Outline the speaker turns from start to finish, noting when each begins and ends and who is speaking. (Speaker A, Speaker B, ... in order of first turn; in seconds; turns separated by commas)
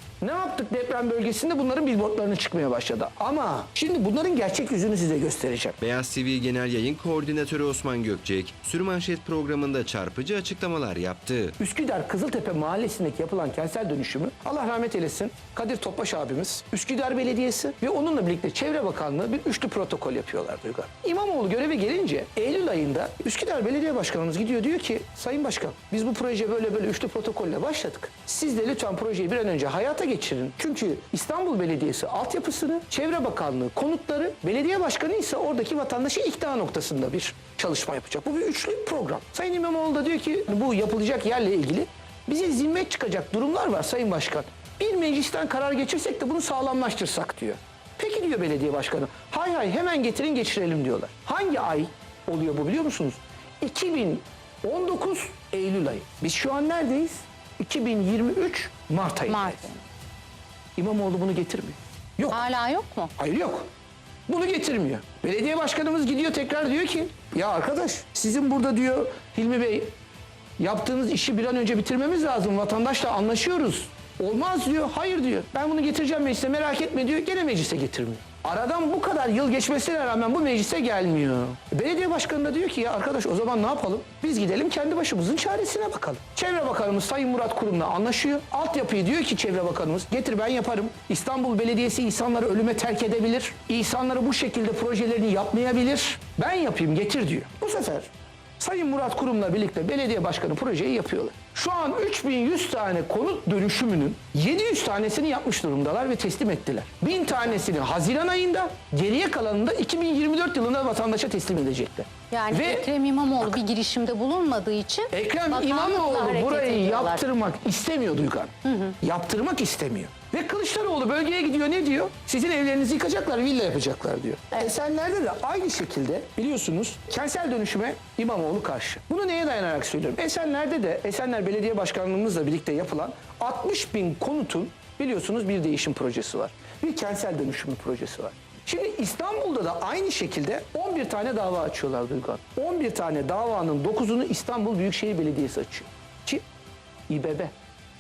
Speaker A: 0.2-5.8, Speaker B: 5.8-11.6, Speaker A: 11.6-59.7, Speaker C: 59.3-59.8, Speaker A: 60.8-62.4, Speaker C: 62.3-63.1, Speaker A: 63.2-63.7, Speaker A: 64.3-69.9, Speaker A: 70.6-113.6, Speaker C: 112.3-117.2, Speaker A: 115.1-146.4, Speaker C: 118.6-118.9, Speaker A: 147.1-147.5